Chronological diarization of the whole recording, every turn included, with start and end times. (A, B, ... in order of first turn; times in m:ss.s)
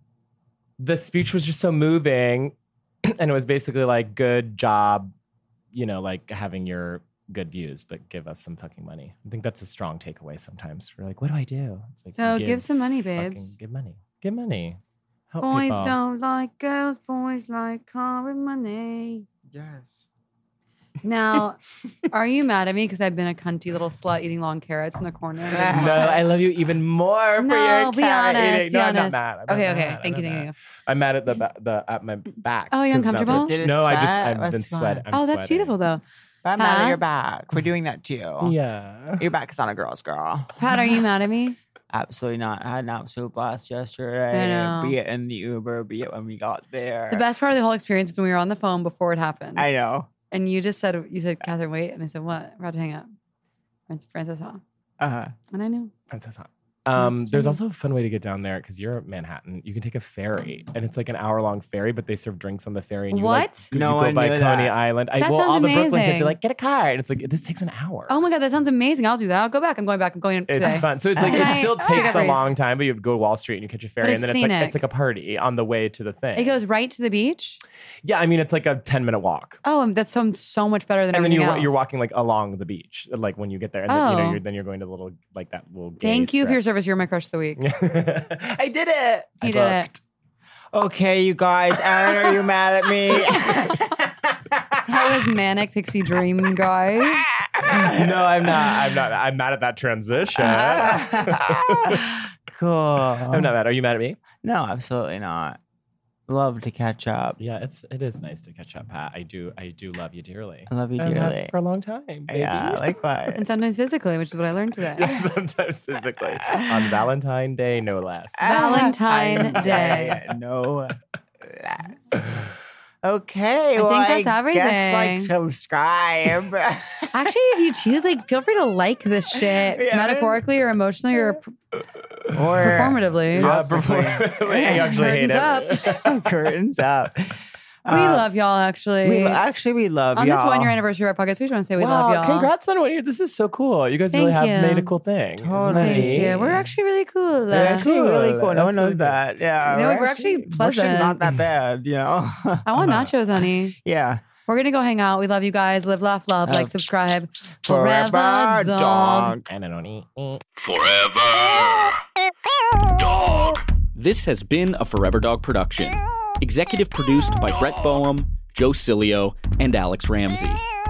0:00.8-0:02.5 A
0:03.0-0:05.1 A
0:05.7-0:14.8 A
0:12.2-0:13.5 B
0:15.3-0:16.0 A
0:15.4-0:19.2 B
0:19.5-0:20.1 C
0:21.0-0:21.6 B
0:22.1-0:26.2 B
0:25.5-0:26.2 C
0:25.7-0:35.7 A
0:27.4-0:30.5 B
0:32.7-0:33.5 B
0:33.2-0:35.0 C
0:35.1-0:36.0 B
0:36.4-0:38.5 C
0:36.6-0:37.0 B
0:38.4-0:39.3 A
0:39.2-0:40.6 C
0:40.6-0:41.6 B
0:41.9-0:47.2 C
0:44.3-0:45.0 B
0:47.1-0:49.7 B
0:49.5-0:50.1 C
0:50.3-0:53.1 B
0:53.9-0:54.6 B
0:55.0-0:55.3 C
0:55.5-0:55.9 B
0:56.1-1:08.1 A
0:57.0-0:57.6 B
1:03.1-1:03.7 B
1:03.7-1:04.7 C
1:05.2-1:06.3 B
1:08.1-1:12.4 B
1:10.5-1:16.6 A
1:11.2-1:12.2 C
1:14.0-1:14.8 B
1:16.4-1:17.6 B
1:18.0-1:19.6 A
1:19.6-1:21.8 B
1:21.1-1:26.6 A
1:23.9-1:24.4 B
1:26.0-1:27.6 B
1:27.6-1:30.0 A
1:29.4-1:29.9 B
1:30.7-1:35.1 C
1:34.8-1:37.2 B
1:37.3-1:38.9 C
1:37.7-1:42.1 A
1:40.4-1:43.5 C
1:43.2-1:44.2 A
1:44.4-1:45.6 C
1:46.3-1:47.4 C
1:47.4-1:52.8 A
1:50.7-1:51.5 C
1:52.3-1:53.4 C
1:53.3-1:55.1 B
1:55.0-1:58.5 A
1:55.0-1:55.2 C
1:56.5-1:57.0 C
1:58.4-2:02.1 C
1:58.4-2:00.2 B
1:59.3-2:00.1 A
2:03.0-2:07.3 C
2:03.8-2:05.3 B
2:07.1-2:11.5 B
2:09.3-2:10.4 C
2:12.3-2:15.0 C
2:12.6-2:13.5 B
2:13.3-2:16.2 A
2:14.8-2:16.0 B
2:15.8-2:18.3 C
2:17.9-2:19.4 B
2:19.0-2:20.8 C
2:20.1-2:22.5 B
2:21.8-2:26.4 A
2:24.1-2:24.9 B
2:25.4-2:26.7 C
2:25.8-2:27.8 B
2:27.5-2:32.6 C
2:27.5-2:29.2 A
2:29.6-2:31.2 B
2:32.6-2:33.7 B
2:32.8-2:33.1 A
2:33.8-2:34.2 C
2:34.4-2:39.3 B
2:36.4-2:36.9 C
2:37.6-2:39.5 C
2:39.5-2:40.4 A
2:40.6-2:42.0 D
2:42.9-2:43.6 D
2:43.9-2:50.6 E